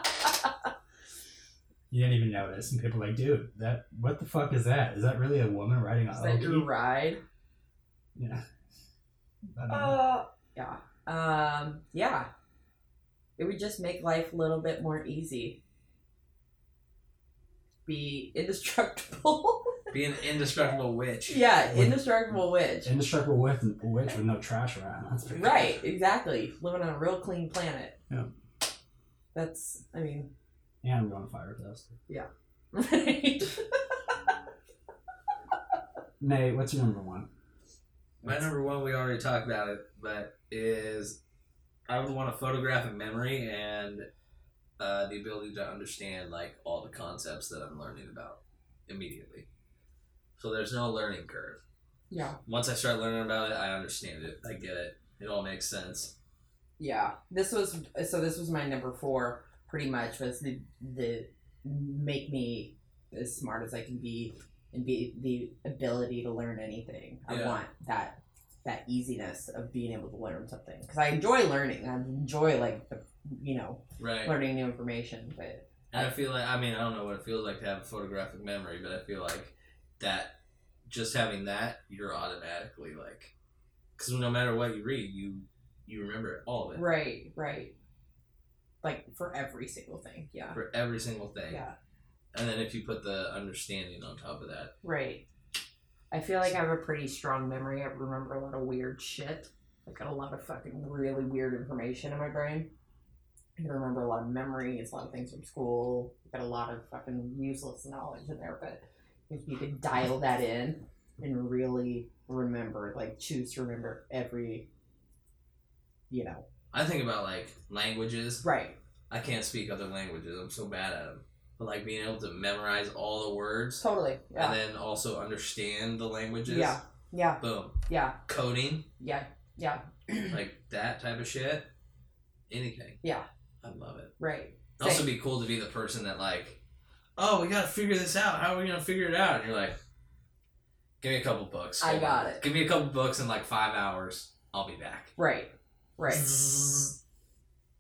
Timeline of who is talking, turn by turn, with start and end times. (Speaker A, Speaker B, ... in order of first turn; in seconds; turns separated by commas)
Speaker A: 1.9-6.7, Speaker B: 6.1-7.2, Speaker A: 8.2-8.4, Speaker A: 9.6-10.0, Speaker B: 9.7-12.3, Speaker B: 13.4-15.6, Speaker B: 17.9-19.8, Speaker C: 19.9-21.4, Speaker B: 21.3-22.9, Speaker A: 21.7-25.7, Speaker B: 25.3-28.0, Speaker B: 29.3-30.3, Speaker A: 30.8-31.9, Speaker B: 32.1-34.0, Speaker A: 36.2-37.3, Speaker C: 38.2-41.2, Speaker C: 41.9-44.1, Speaker C: 44.8-49.5, Speaker C: 50.4-51.6, Speaker B: 52.1-52.4, Speaker C: 52.5-56.1, Speaker B: 56.8-76.1, Speaker C: 67.3-67.6, Speaker C: 74.0-74.3, Speaker C: 75.9-80.4, Speaker C: 80.9-83.3, Speaker C: 84.0-86.8, Speaker B: 86.7-87.7, Speaker B: 88.8-90.6, Speaker C: 90.5-91.6, Speaker B: 91.5-91.8, Speaker C: 92.3-94.7, Speaker B: 94.8-95.2, Speaker B: 96.1-102.7, Speaker B: 103.6-114.7, Speaker B: 116.1-116.4, Speaker C: 116.7-118.5, Speaker B: 118.4-118.8, Speaker C: 119.1-123.8, Speaker B: 123.8-124.6, Speaker C: 124.3-126.8, Speaker B: 126.5-128.2, Speaker C: 127.4-127.8, Speaker C: 128.3-128.9, Speaker B: 129.0-130.3, Speaker C: 130.3-131.7, Speaker C: 132.5-133.0, Speaker C: 133.6-134.1, Speaker B: 134.2-135.1, Speaker C: 134.8-136.6, Speaker C: 137.2-139.8, Speaker C: 141.0-145.1, Speaker B: 141.8-142.4, Speaker B: 145.2-146.4, Speaker C: 146.3-146.9